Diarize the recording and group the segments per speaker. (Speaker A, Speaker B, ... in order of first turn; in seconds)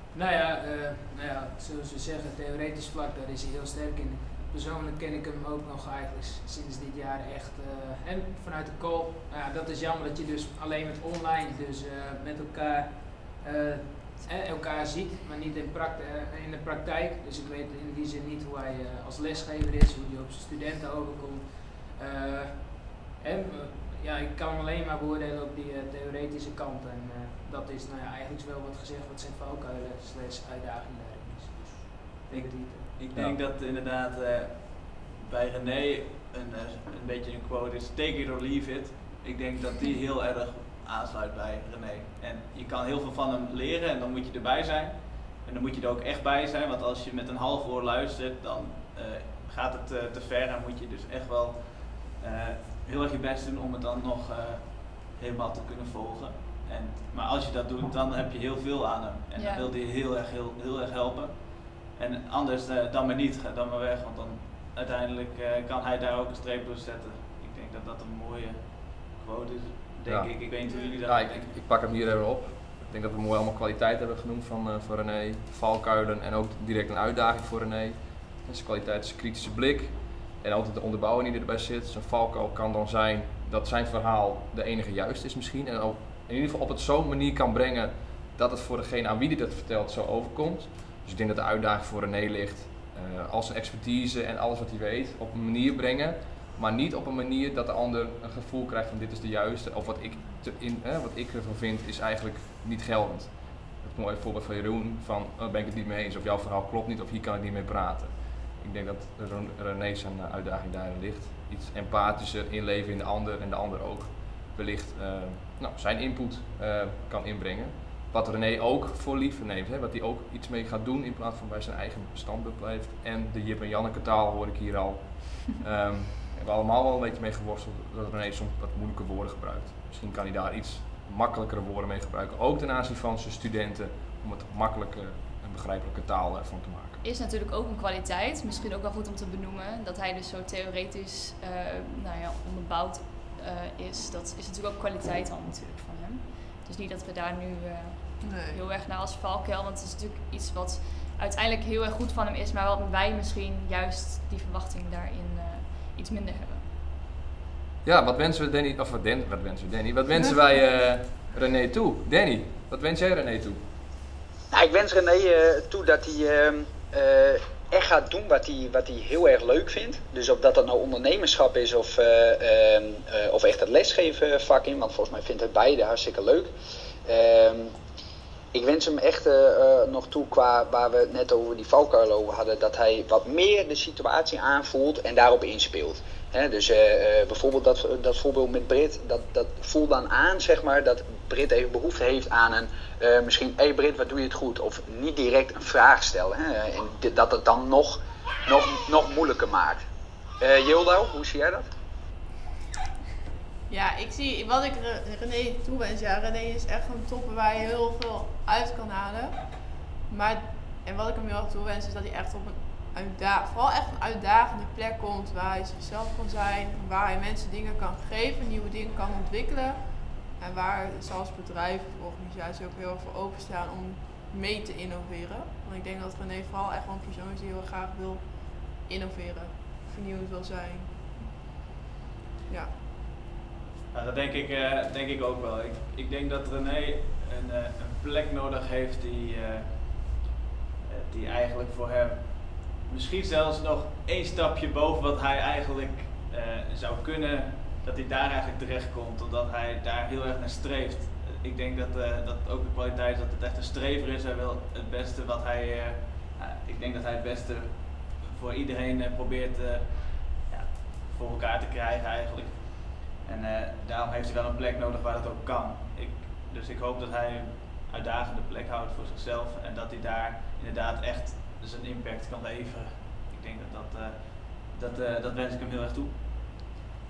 Speaker A: 0.1-33.1
Speaker B: 32.3-71.5, 233.9-240.2, 240.9-276.1
Speaker C: 59.4-59.7, 137.0-156.7
Speaker D: 70.1-137.0, 157.8-163.6
Speaker E: 70.7-71.0, 148.2-148.6, 203.7-231.1
Speaker F: 164.5-176.5, 177.1-177.7, 178.5-199.8, 200.4-201.7